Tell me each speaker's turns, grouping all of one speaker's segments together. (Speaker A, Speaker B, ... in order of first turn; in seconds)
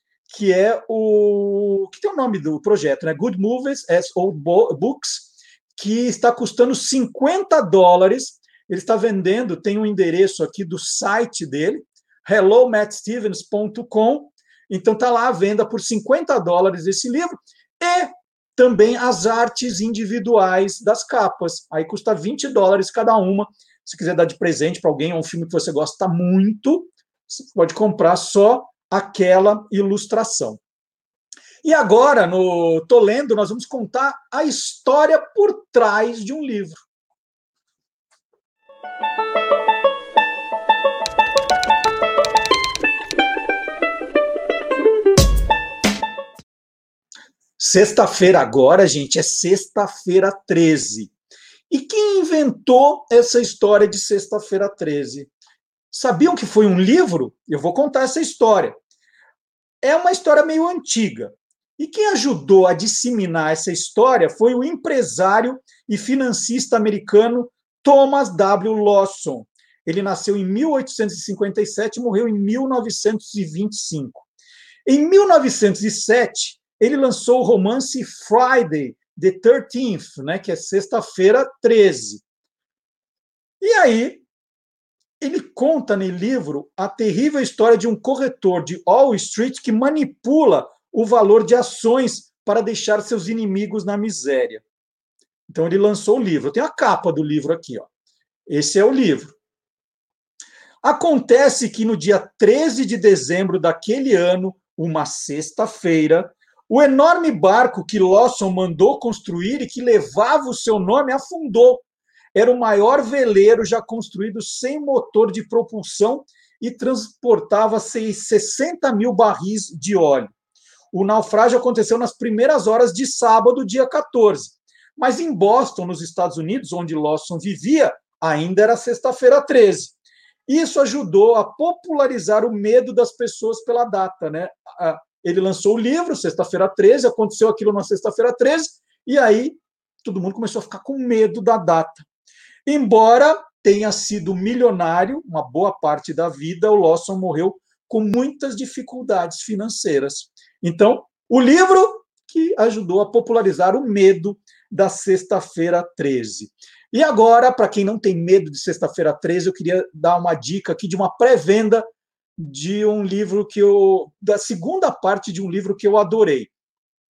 Speaker A: 0.3-30.6, 31.6-36.8, 47.6-51.1, 51.7-55.3, 55.9-58.8, 59.8-74.3, 74.9-82.2, 83.6-84.2, 85.2-94.6, 95.5-97.9, 98.5-99.3, 100.8-120.3, 120.9-129.9, 130.5-142.1, 142.7-166.5